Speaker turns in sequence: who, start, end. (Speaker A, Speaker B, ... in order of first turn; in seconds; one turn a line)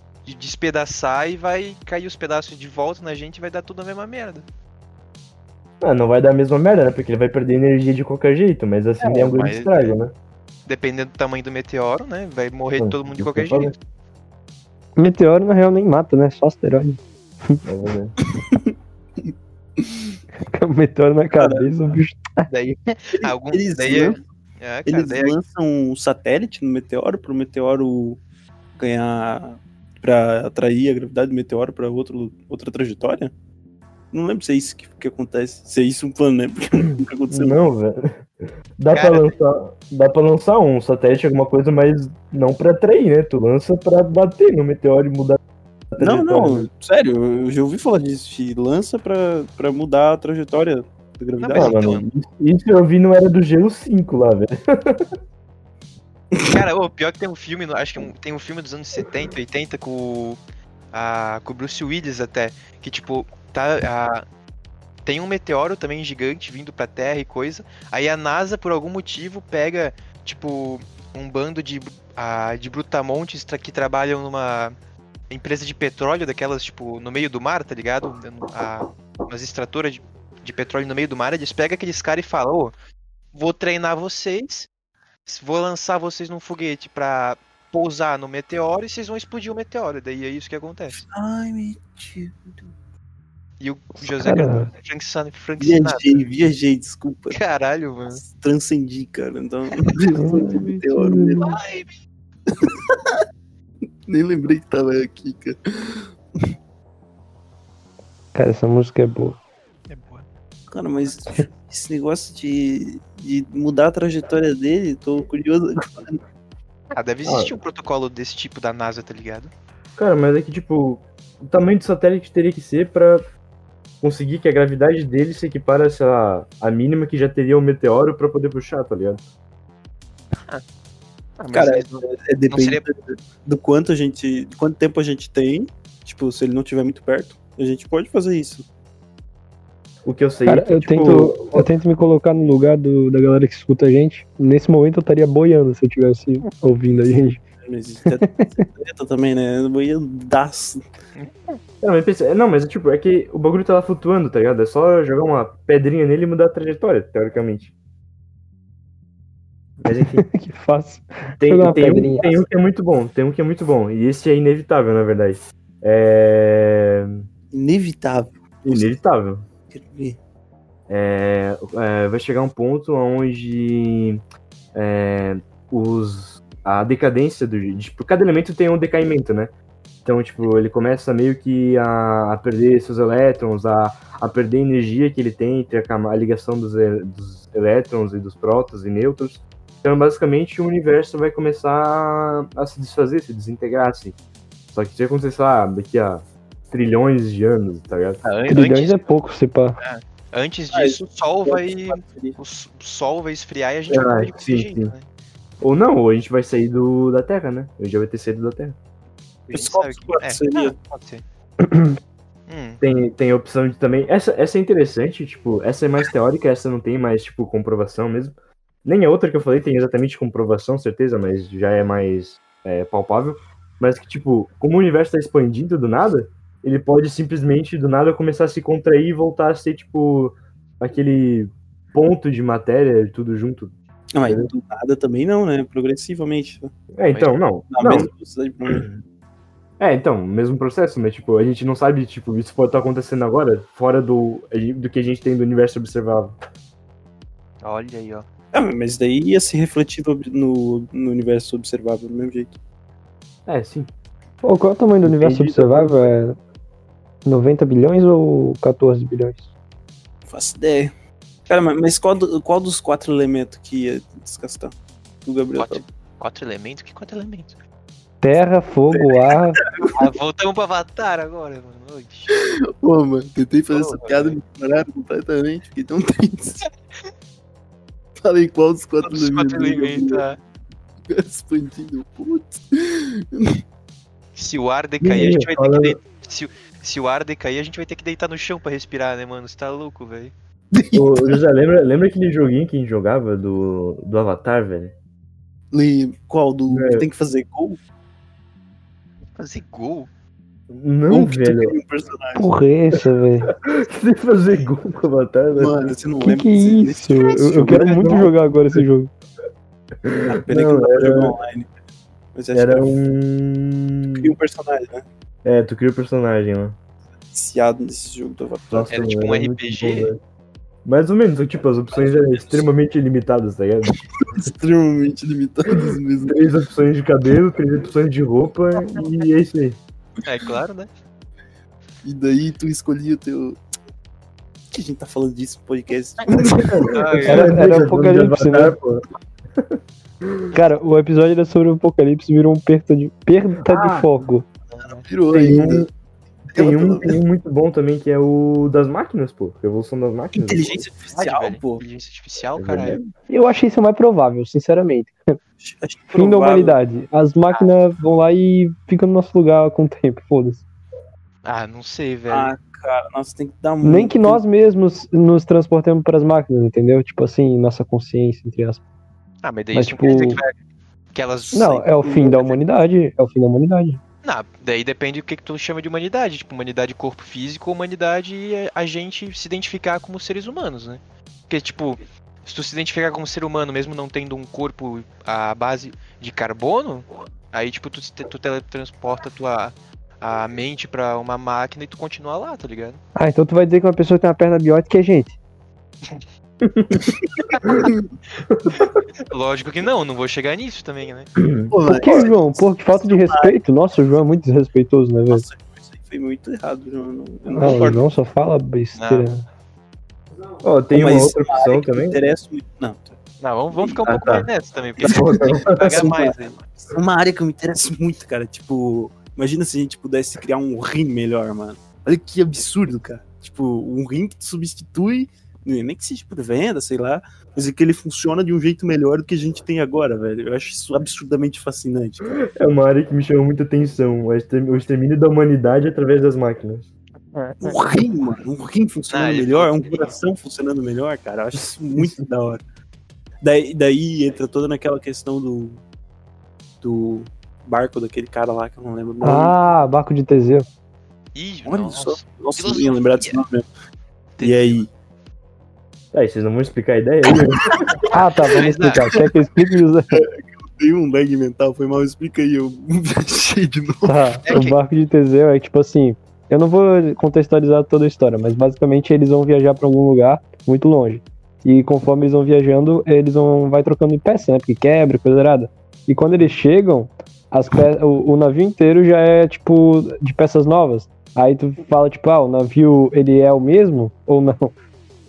Speaker A: 0.2-4.5
Speaker B: 5.8-10.1
Speaker A: 9.0-9.9
Speaker A: 10.7-13.8
Speaker B: 12.8-13.7
Speaker C: 15.0-17.6
Speaker B: 17.6-18.1
Speaker D: 18.4-20.1
Speaker C: 20.5-22.5
Speaker D: 21.4-21.7
Speaker A: 22.5-25.4
Speaker D: 23.2-24.2
Speaker D: 24.9-28.2
Speaker D: 28.8-33.3
Speaker D: 34.1-37.6
Speaker B: 37.3-38.2
Speaker B: 38.8-45.4
Speaker A: 38.9-39.3
Speaker B: 45.9-46.7
Speaker D: 46.0-51.8
Speaker A: 51.4-52.0
Speaker B: 51.5-55.1
Speaker D: 56.3-56.6
Speaker A: 56.5-60.4
Speaker A: 60.9-64.2
Speaker A: 65.0-74.7
Speaker A: 75.3-82.7
Speaker A: 83.3-84.7
Speaker A: 85.3-91.0
Speaker D: 90.9-92.6
Speaker A: 93.6-96.3
Speaker C: 94.0-94.7
Speaker D: 95.6-97.4
Speaker A: 97.3-98.2
Speaker D: 98.1-101.6
Speaker C: 100.2-101.5
Speaker A: 101.4-101.9
Speaker D: 102.5-103.0
Speaker D: 104.1-106.1
Speaker C: 108.3-109.4
Speaker A: 109.9-110.3
Speaker D: 110.7-116.2
Speaker A: 116.9-119.5
Speaker B: 117.2-117.5
Speaker B: 120.0-123.3
Speaker B: 124.0-129.2
Speaker A: 131.4-132.8
Speaker D: 131.5-138.7
Speaker B: 140.1-141.7
Speaker C: 140.5-147.4
Speaker D: 147.6-150.8
Speaker C: 148.1-148.6
Speaker A: 151.2-151.6
Speaker B: 151.8-157.7
Speaker B: 159.8-160.2
Speaker C: 160.0-162.3
Speaker B: 161.4-167.2
Speaker D: 167.5-168.9
Speaker B: 168.7-169.4
Speaker D: 169.7-170.2
Speaker B: 170.9-174.2
Speaker B: 174.8-179.5
Speaker B: 180.1-194.2
Speaker B: 194.7-198.2
Speaker A: 198.2-199.0
Speaker C: 198.5-199.8
Speaker A: 199.8-205.1
Speaker D: 200.7-202.4
Speaker B: 203.9-204.9
Speaker B: 205.6-208.8
Speaker A: 209.5-211.2
Speaker D: 209.5-210.7
Speaker C: 211.6-212.0
Speaker A: 212.5-212.8
Speaker B: 212.8-233.7
Speaker D: 234.1-236.7
Speaker B: 234.2-234.5
Speaker B: 237.0-238.1
Speaker A: 237.1-237.4
Speaker D: 237.7-238.9
Speaker B: 238.7-239.0
Speaker B: 239.8-246.3
Speaker A: 247.6-248.3
Speaker D: 248.5-252.6
Speaker B: 253.5-253.9
Speaker C: 254.4-256.4
Speaker B: 255.0-256.0
Speaker C: 257.2-259.4
Speaker D: 260.3-260.9
Speaker D: 261.5-265.8
Speaker A: 265.6-267.6
Speaker C: 268.2-269.6
Speaker D: 268.9-270.1
Speaker A: 269.9-272.4
Speaker D: 272.3-276.7
Speaker A: 273.7-274.4
Speaker D: 278.2-280.2
Speaker A: 279.0-280.4
Speaker D: 281.1-283.6
Speaker A: 284.4-290.3
Speaker B: 285.0-286.0
Speaker D: 290.7-291.4
Speaker B: 290.9-294.9
Speaker D: 295.7-297.8
Speaker B: 296.7-297.1
Speaker A: 299.4-300.1
Speaker B: 300.7-301.8
Speaker D: 301.1-302.6
Speaker C: 302.4-303.5
Speaker B: 303.6-305.9
Speaker D: 305.6-308.1
Speaker C: 306.2-309.1
Speaker B: 307.7-308.8
Speaker B: 310.0-311.3
Speaker D: 310.3-311.7
Speaker D: 312.3-312.9
Speaker B: 312.5-314.3
Speaker D: 314.1-315.1
Speaker B: 315.4-316.8
Speaker D: 317.3-318.9
Speaker B: 318.7-320.2
Speaker A: 318.9-320.1
Speaker B: 320.9-324.0
Speaker D: 322.0-322.6
Speaker D: 323.9-326.5
Speaker B: 326.2-329.8
Speaker A: 330.2-330.9
Speaker D: 332.0-333.6
Speaker D: 334.7-337.0
Speaker B: 336.7-339.0
Speaker A: 336.9-337.5
Speaker C: 337.3-338.8
Speaker B: 339.6-340.5
Speaker C: 340.5-344.5
Speaker B: 343.6-344.1
Speaker A: 344.7-345.1
Speaker D: 345.1-345.9
Speaker B: 345.3-345.9
Speaker D: 346.5-347.2
Speaker B: 346.5-350.8
Speaker D: 350.4-351.8
Speaker A: 351.1-353.0
Speaker B: 352.6-353.1
Speaker C: 353.3-355.4
Speaker D: 355.6-356.8
Speaker C: 356.1-360.6
Speaker A: 361.4-362.5
Speaker D: 362.3-364.4
Speaker C: 363.8-368.8
Speaker A: 369.4-370.5
Speaker C: 369.7-370.4
Speaker A: 371.1-371.9
Speaker C: 371.5-374.0
Speaker D: 372.0-372.6
Speaker A: 374.2-393.0
Speaker C: 393.2-395.4
Speaker B: 396.6-397.1
Speaker D: 396.9-398.1
Speaker A: 397.5-397.8
Speaker B: 398.5-398.9
Speaker A: 398.7-401.3
Speaker B: 401.4-401.7
Speaker D: 401.7-403.6
Speaker C: 401.9-405.4
Speaker D: 405.3-408.0
Speaker C: 407.6-409.4
Speaker A: 409.0-409.3
Speaker B: 410.6-412.2
Speaker D: 410.9-413.2
Speaker A: 413.4-416.6
Speaker B: 414.1-414.5
Speaker D: 415.0-432.4
Speaker B: 415.0-416.1
Speaker B: 432.4-436.9
Speaker A: 437.3-437.8
Speaker D: 437.6-442.6
Speaker A: 439.1-440.1
Speaker B: 441.5-442.1
Speaker D: 443.4-445.8
Speaker D: 446.8-449.6
Speaker C: 449.2-450.7
Speaker A: 451.4-453.4
Speaker D: 451.7-453.7
Speaker A: 454.4-454.9
Speaker D: 454.4-454.9
Speaker B: 456.1-458.0
Speaker A: 458.1-459.2
Speaker C: 458.1-460.2
Speaker D: 460.1-464.6
Speaker C: 464.1-484.8
Speaker A: 464.5-464.8